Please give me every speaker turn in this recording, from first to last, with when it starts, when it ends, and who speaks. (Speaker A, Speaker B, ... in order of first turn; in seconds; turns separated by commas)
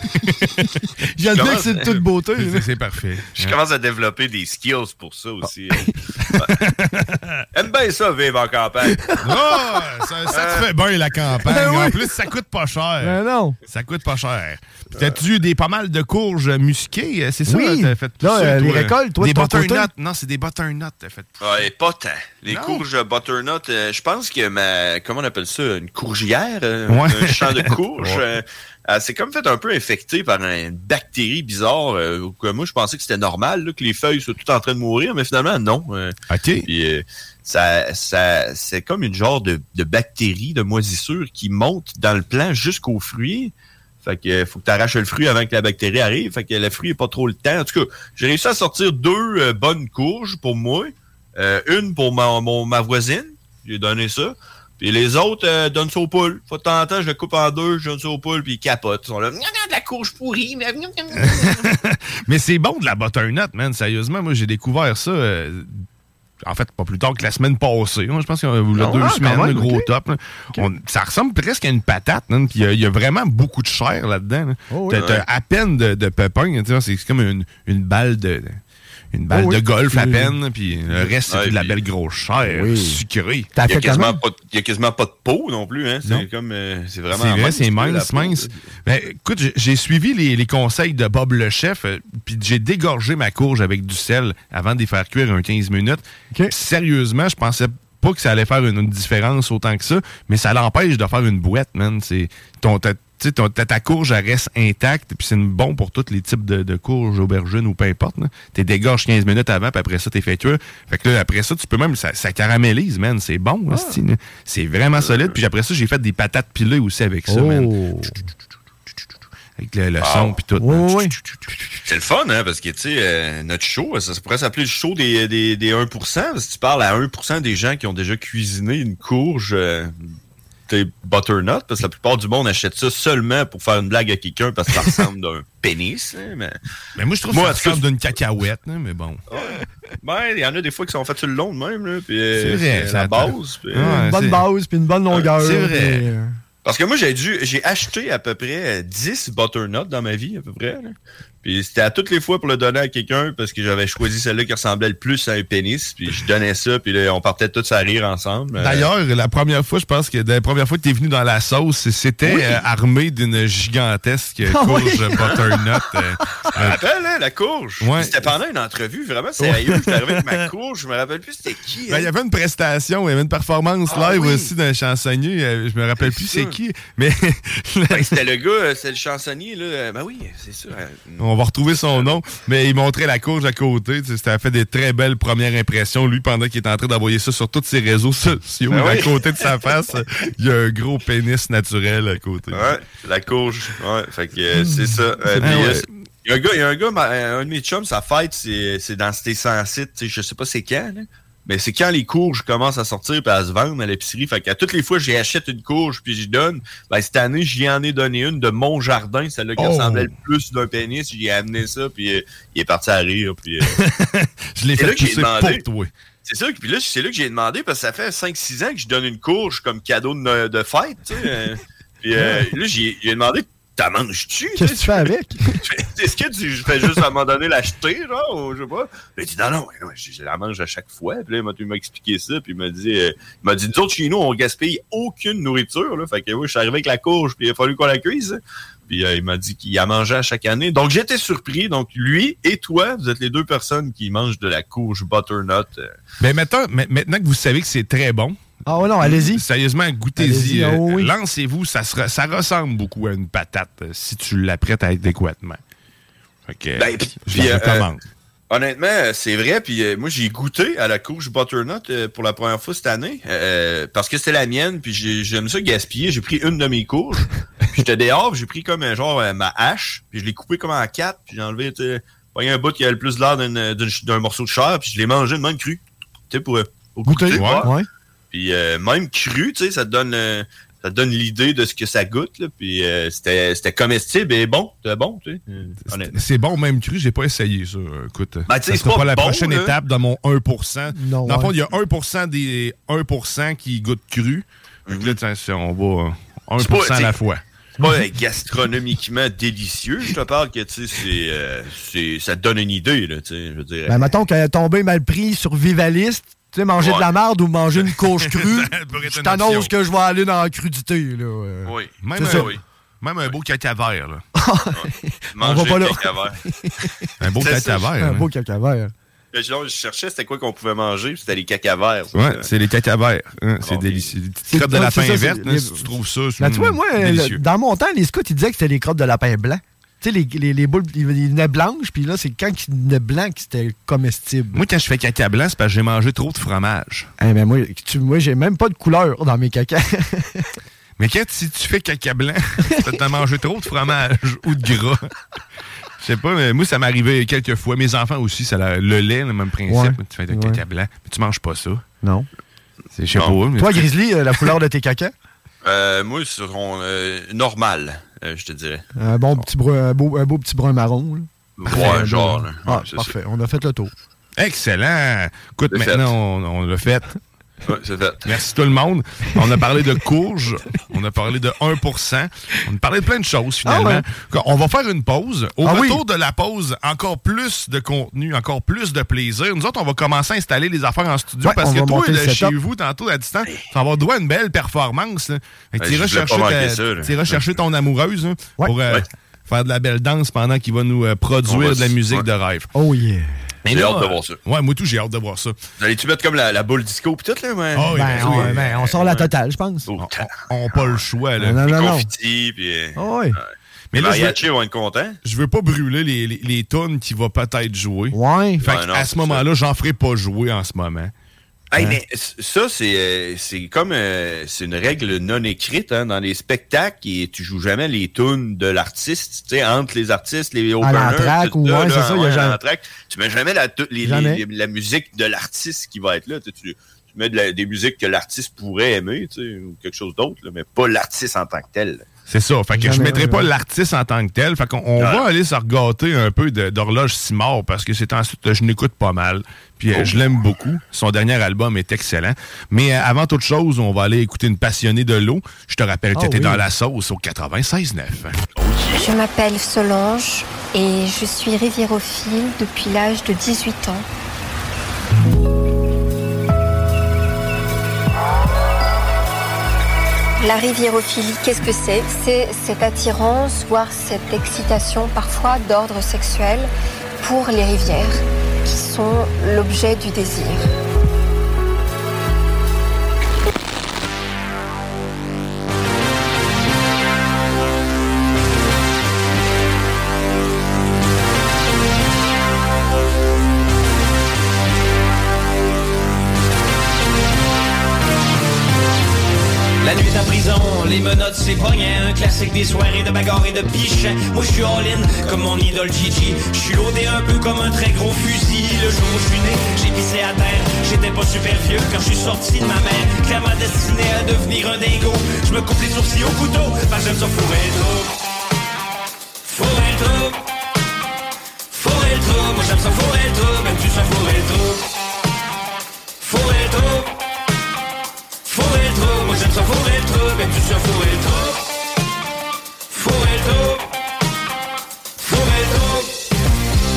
Speaker A: 1.1-2.6, Speaker B: 1.3-2.0, Speaker C: 2.4-3.5, Speaker B: 3.3-6.5, Speaker C: 6.4-7.4, Speaker B: 7.5-9.0, Speaker A: 8.9-9.8, Speaker C: 9.2-13.2, Speaker B: 10.3-10.7, Speaker A: 11.4-12.2, Speaker A: 13.0-13.6, Speaker C: 13.7-21.5, Speaker A: 17.5-19.9, Speaker B: 21.4-43.5, Speaker C: 22.5-22.8, Speaker C: 26.9-28.2, Speaker C: 36.3-36.7, Speaker B: 44.0-61.7, Speaker C: 61.2-65.8, Speaker C: 66.4-78.6, Speaker B: 68.7-69.0, Speaker A: 68.8-69.9, Speaker A: 74.7-75.0, Speaker B: 74.9-75.2, Speaker C: 79.1-83.5, Speaker A: 79.3-80.3, Speaker B: 81.3-81.8, Speaker A: 82.4-83.0, Speaker A: 83.5-84.2, Speaker B: 83.7-88.6, Speaker C: 87.1-117.7, Speaker A: 113.7-114.0, Speaker B: 115.0-115.3, Speaker A: 117.3-118.1, Speaker C: 119.6-121.4, Speaker B: 120.0-120.3, Speaker A: 120.6-121.1, Speaker B: 121.8-130.1, Speaker B: 130.7-136.6, Speaker C: 137.0-139.2, Speaker B: 137.3-137.8, Speaker B: 139.3-144.1, Speaker C: 142.4-144.4, Speaker A: 143.8-146.4, Speaker C: 145.4-146.0, Speaker B: 146.6-158.9, Speaker C: 158.6-166.8, Speaker B: 162.2-162.6, Speaker A: 164.5-165.8, Speaker B: 166.5-172.1, Speaker C: 167.8-168.3, Speaker C: 169.4-170.2, Speaker C: 171.9-178.2, Speaker B: 173.9-174.5, Speaker B: 176.0-176.6, Speaker B: 177.9-181.2, Speaker C: 181.2-192.7, Speaker B: 181.9-182.2, Speaker B: 188.7-189.4, Speaker B: 192.5-213.7, Speaker C: 195.4-195.9, Speaker C: 209.6-210.1, Speaker C: 213.7-215.9, Speaker B: 214.8-215.6, Speaker B: 216.2-225.1, Speaker A: 222.2-222.4, Speaker A: 224.6-225.6, Speaker B: 225.6-245.9, Speaker C: 246.2-248.4, Speaker A: 248.7-249.4, Speaker C: 249.0-255.6, Speaker A: 250.2-251.1, Speaker C: 256.5-258.0, Speaker B: 256.8-257.9, Speaker B: 258.5-277.7, Speaker A: 277.1-277.9, Speaker C: 277.3-277.7, Speaker B: 278.3-286.2, Speaker C: 285.9-297.4, Speaker B: 288.5-289.8, Speaker A: 290.9-291.5, Speaker B: 294.9-295.1, Speaker B: 296.6-297.1, Speaker B: 297.8-304.1, Speaker A: 303.9-312.5, Speaker B: 306.8-307.1, Speaker C: 308.4-309.7, Speaker B: 311.6-312.6, Speaker C: 312.0-314.2, Speaker A: 314.4-317.0, Speaker B: 314.7-316.4, Speaker C: 317.2-318.2, Speaker B: 317.4-317.9, Speaker A: 318.0-318.9, Speaker B: 319.3-322.5, Speaker C: 322.1-327.4, Speaker B: 323.6-324.1, Speaker A: 324.5-325.9, Speaker A: 326.4-334.6, Speaker C: 334.5-337.1, Speaker A: 337.2-340.5, Speaker C: 341.0-345.1, Speaker C: 346.0-351.8, Speaker A: 349.7-350.6, Speaker C: 352.9-353.9, Speaker B: 353.1-353.4, Speaker A: 353.6-355.1, Speaker B: 355.6-358.8, Speaker A: 359.0-363.9, Speaker B: 361.6-363.1, Speaker C: 364.4-367.1, Speaker B: 365.7-366.1, Speaker B: 367.6-368.4, Speaker C: 368.2-392.7, Speaker A: 373.6-374.0, Speaker A: 375.6-376.0, Speaker A: 381.4-382.5, Speaker B: 385.8-387.6, Speaker B: 391.4-392.3, Speaker A: 392.7-393.3, Speaker C: 393.6-395.6, Speaker B: 393.6-394.4, Speaker B: 395.8-399.3, Speaker C: 397.7-398.7, Speaker A: 397.9-399.9, Speaker B: 399.9-401.0, Speaker C: 400.0-401.6, Speaker A: 401.4-402.1, Speaker B: 401.6-405.2, Speaker A: 402.9-403.4, Speaker C: 403.9-404.4, Speaker C: 405.2-411.1, Speaker A: 408.1-408.6, Speaker B: 408.6-409.4, Speaker B: 411.7-432.0, Speaker A: 420.8-422.6, Speaker A: 424.0-424.4, Speaker C: 432.3-448.4, Speaker A: 432.8-433.5, Speaker B: 435.0-435.3, Speaker B: 439.9-440.2, Speaker A: 446.1-446.6, Speaker B: 448.6-449.1, Speaker D: 449.0-454.1, Speaker D: 460.4-466.7, Speaker D: 467.2-470.6, Speaker E: 489.8-508.1, Speaker E: 509.4-510.4, Speaker E: 511.7-514.8, Speaker E: 516.2-517.1, Speaker E: 518.4-521.6, Speaker E: 522.9-523.8, Speaker E: 525.2-526.1